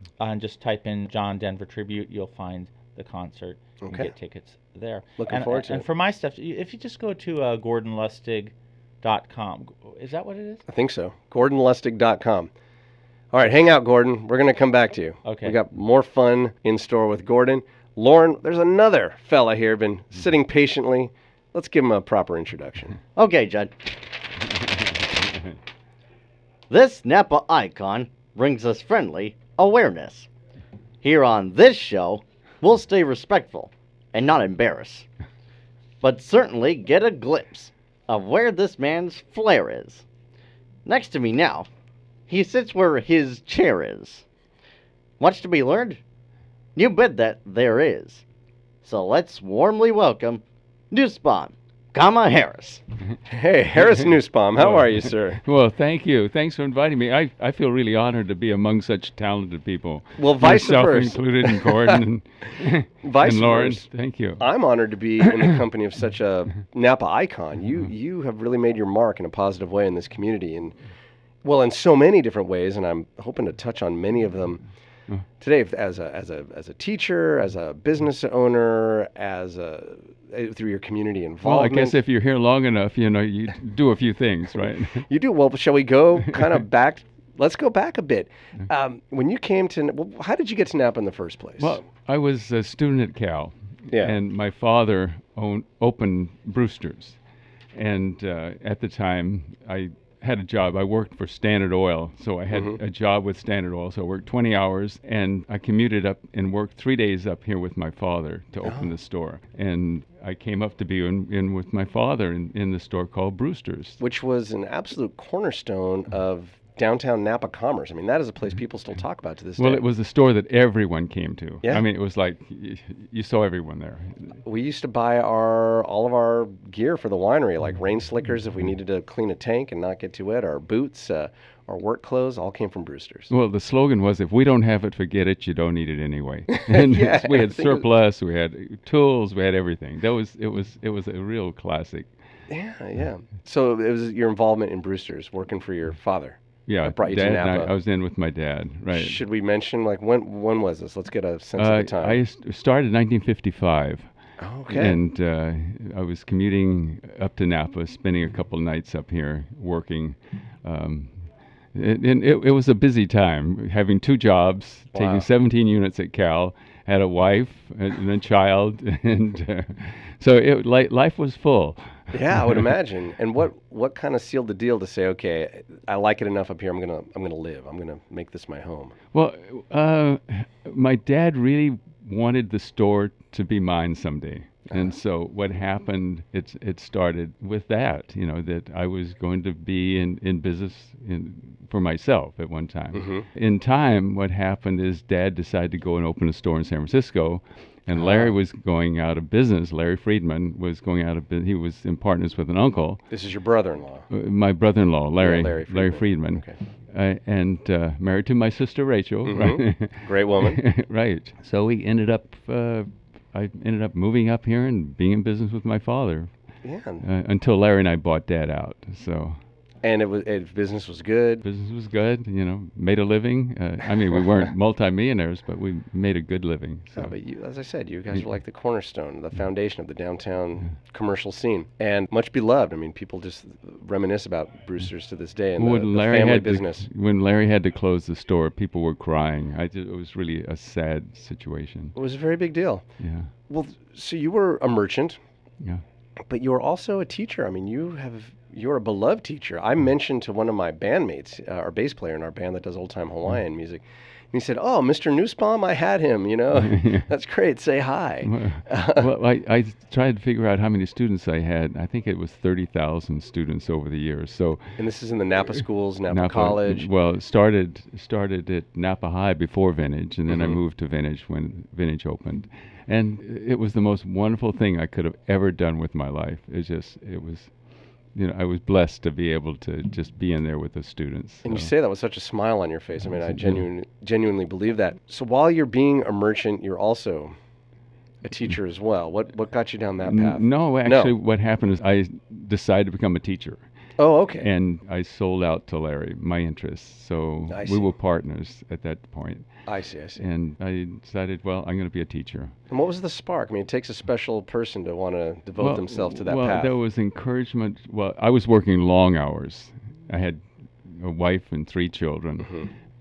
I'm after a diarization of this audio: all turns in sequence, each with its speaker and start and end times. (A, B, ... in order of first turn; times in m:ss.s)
0:00.2-0:10.6 A
0:03.8-0:04.1 B
0:05.2-0:05.8 B
0:10.7-0:12.5 B
0:13.3-0:23.0 B
0:15.2-0:15.6 A
0:23.1-0:23.7 C
0:26.7-0:30.3 C
0:31.0-0:35.1 C
0:36.0-0:40.0 C
0:40.9-0:41.7 C
0:42.3-0:44.2 C
0:45.2-0:46.0 C
0:46.8-0:48.2 C
0:48.8-0:52.8 C
0:53.3-0:55.4 B
0:54.6-1:04.4 D
1:00.2-1:02.0 B
1:03.0-1:03.9 B
1:04.4-1:10.8 B
1:11.4-1:14.6 B
1:15.4-1:22.0 B
1:21.4-1:25.1 D
1:25.0-1:31.8 B
1:31.6-1:37.2 D
1:33.9-1:34.2 B
1:37.7-1:54.0 D
1:42.5-1:42.8 B
1:48.6-1:48.9 B
1:54.0-1:59.8 B
1:59.6-2:04.3 D
2:04.4-2:13.3 B
2:13.3-2:22.1 D
2:16.6-2:17.9 B
2:22.5-2:27.7 B
2:26.7-2:29.2 D
2:28.9-2:32.2 B
2:31.6-2:34.1 D
2:34.4-2:35.0 B
2:34.7-2:41.2 D
2:41.7-2:52.5 D
2:44.9-2:45.2 B
2:52.1-2:58.9 B
2:59.1-3:23.0 D
3:12.9-3:13.2 B
3:17.9-3:18.4 B
3:23.1-3:24.1 B
3:24.1-3:36.3 D
3:25.2-3:26.6 B
3:29.2-3:30.6 B
3:36.6-3:37.0 B
3:37.0-3:39.4 D
3:39.8-3:41.4 B
3:41.4-3:47.1 D
3:47.0-3:56.9 B
3:55.6-4:02.0 D
4:02.0-4:02.8 B
4:03.0-4:03.3 D
4:03.5-4:05.2 B
4:06.3-4:19.1 B
4:16.6-4:17.0 D
4:18.2-4:24.8 D
4:24.8-4:26.9 B
4:26.1-4:37.5 D
4:30.3-4:30.6 B
4:38.1-4:41.7 D
4:41.4-4:47.3 B
4:48.2-4:51.1 B
4:50.0-4:53.6 D
4:54.0-4:54.5 B
4:54.4-4:59.5 D
4:57.5-4:57.9 B
4:59.7-5:00.2 B
5:00.2-5:02.5 D
5:02.7-5:06.7 B
5:05.6-5:12.6 D
5:12.4-5:12.7 B